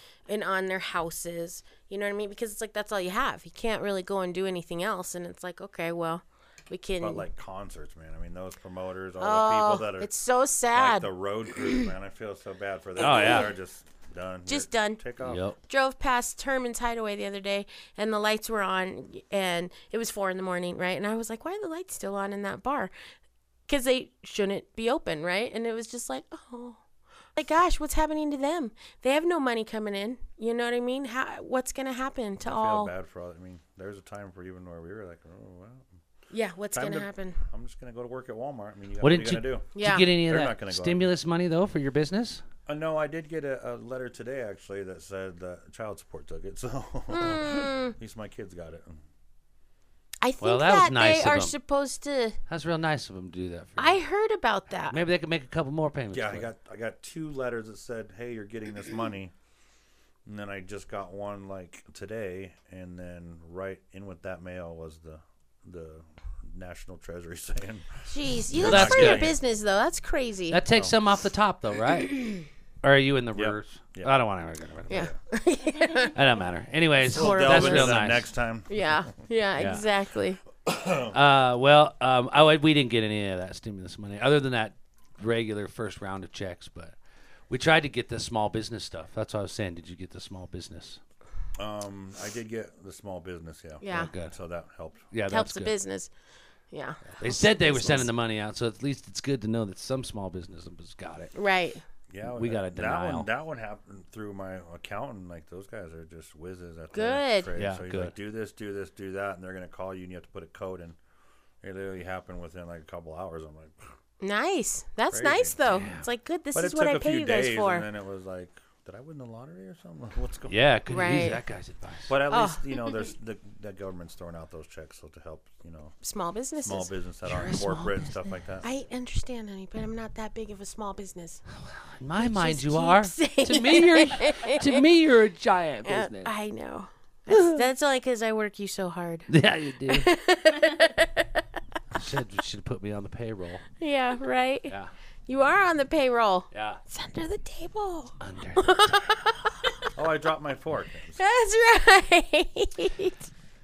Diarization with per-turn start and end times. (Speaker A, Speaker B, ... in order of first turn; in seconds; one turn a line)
Speaker A: 0.3-7.2
Speaker B: 7.0-10.1
Speaker A: 9.2-11.9
Speaker B: 10.7-15.4
Speaker C: 13.0-13.5
Speaker A: 13.0-13.5
Speaker A: 14.5-15.0
Speaker C: 15.2-15.6
Speaker A: 15.6-22.9
Speaker A: 23.7-26.8
Speaker A: 27.3-32.9
Speaker B: 32.4-35.9
Speaker A: 36.3-37.4
Speaker B: 36.7-41.1
Speaker C: 39.0-42.4
Speaker A: 39.7-40.1
Speaker B: 42.6-49.0
Speaker A: 47.1-48.0
Speaker A: 50.2-52.4
Speaker C: 50.4-51.5
Speaker C: 52.5-54.0
Speaker A: 53.8-55.0
Speaker C: 54.9-56.5
Speaker B: 56.1-59.3
Speaker B: 60.2-69.3
Speaker A: 68.1-70.6
Speaker C: 68.6-69.3
Speaker C: 70.5-72.2
Speaker B: 70.7-70.9
Speaker C: 72.8-75.1
Speaker B: 73.3-74.1
Speaker A: 74.9-76.1
Speaker C: 76.1-78.3
Speaker A: 77.0-80.4
Speaker B: 77.1-78.9
Speaker C: 79.6-79.8
Speaker B: 80.7-81.1
Speaker C: 81.1-86.9
Speaker C: 87.5-91.0
Speaker B: 91.5-95.1
Speaker A: 93.8-94.1
Speaker C: 93.9-94.3
Speaker C: 95.1-95.7
Speaker A: 95.3-96.1
Speaker A: 96.7-98.1
Speaker C: 97.2-101.3
Speaker A: 101.3-101.8
Speaker B: 102.1-111.0
Speaker C: 102.2-103.3
Speaker A: 106.9-107.5
Speaker C: 107.5-108.1
Speaker B: 111.6-113.8
Speaker A: 114.2-117.9
Speaker B: 115.1-115.6
Speaker C: 115.7-116.0
Speaker B: 116.5-120.6
Speaker C: 120.5-122.1
Speaker A: 120.9-121.4
Speaker B: 122.1-126.0
Speaker A: 122.3-123.0
Speaker A: 126.0-126.9
Speaker B: 126.6-128.7
Speaker C: 127.2-128.0
Speaker A: 128.6-131.4
Speaker C: 131.7-136.3
Speaker A: 132.2-134.8
Speaker A: 135.8-139.3
Speaker C: 137.3-137.6
Speaker C: 139.3-140.1
Speaker A: 139.8-141.5
Speaker C: 141.9-143.6
Speaker A: 143.8-144.7
Speaker A: 145.3-149.9
Speaker C: 146.5-146.8
Speaker C: 148.2-148.8
Speaker B: 149.9-151.2
Speaker A: 151.2-153.3